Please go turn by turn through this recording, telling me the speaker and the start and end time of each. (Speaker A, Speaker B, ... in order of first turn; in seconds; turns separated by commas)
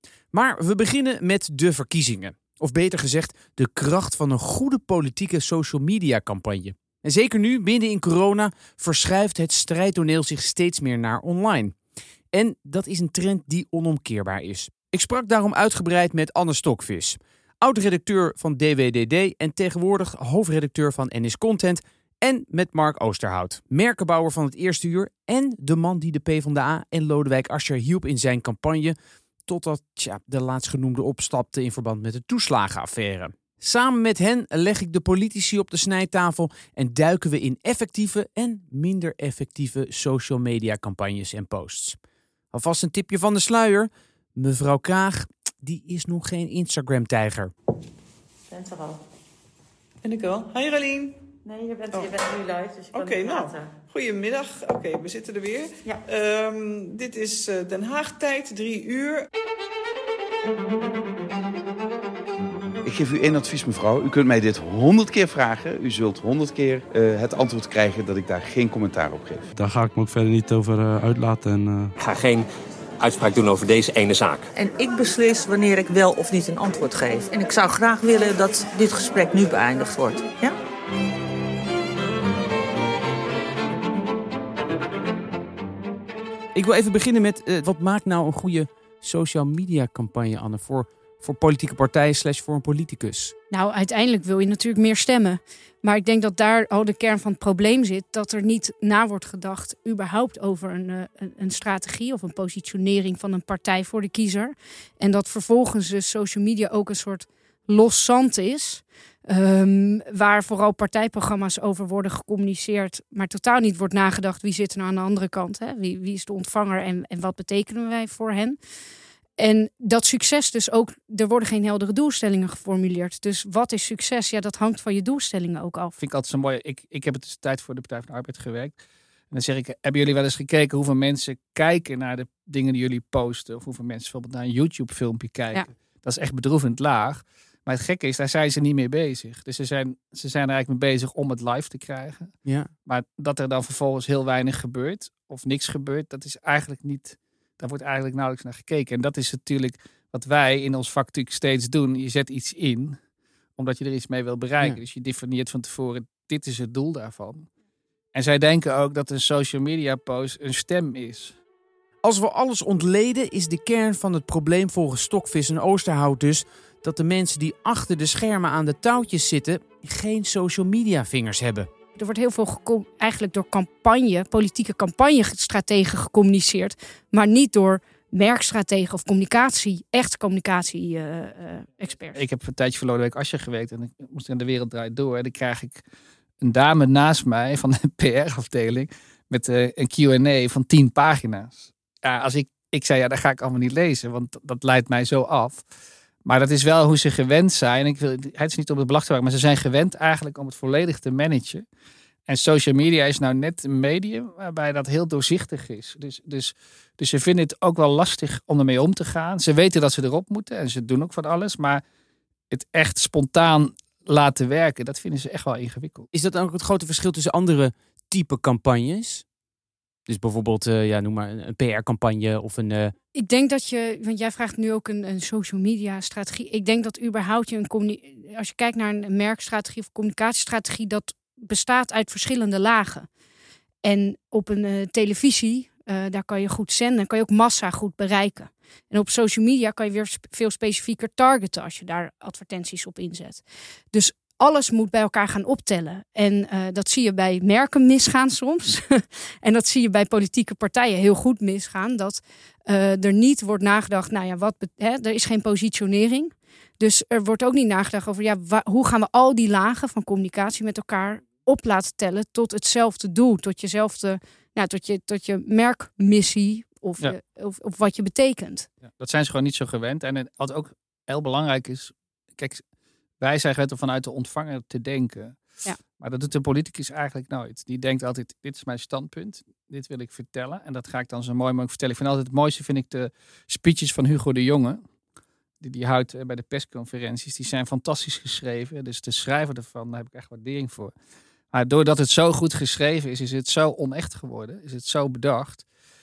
Speaker A: 0.3-11.8, Speaker A: 12.3-29.0, Speaker A: 29.5-42.0, Speaker A: 42.5-47.5, Speaker B: 48.5-49.0, Speaker C: 50.0-51.3, Speaker B: 51.4-53.8, Speaker C: 51.9-52.2, Speaker C: 52.9-59.3, Speaker D: 62.8-69.5, Speaker E: 69.5-71.9, Speaker F: 72.0-72.5, Speaker F: 73.0-74.5, Speaker G: 74.5-80.6, Speaker A: 86.5-93.3, Speaker H: 93.5-118.6, Speaker H: 119.4-125.9, Speaker I: 126.0-128.8, Speaker I: 129.3-142.3, Speaker A: 142.4-142.7, Speaker I: 142.8-153.0, Speaker I: 153.6-157.5, Speaker I: 158.1-161.3, Speaker A: 162.0-171.7, Speaker H: 172.0-182.2, Speaker I: 182.1-185.8, Speaker I: 186.4-195.6, Speaker I: 196.2-201.7, Speaker I: 202.3-211.8, Speaker I: 212.5-216.1, Speaker A: 216.1-219.2, Speaker A: 220.1-222.9, Speaker H: 223.2-233.1, Speaker H: 233.8-243.4, Speaker H: 243.9-268.7, Speaker I: 268.9-272.6, Speaker I: 273.2-275.4, Speaker I: 276.0-284.8, Speaker I: 285.6-290.9, Speaker I: 291.5-295.6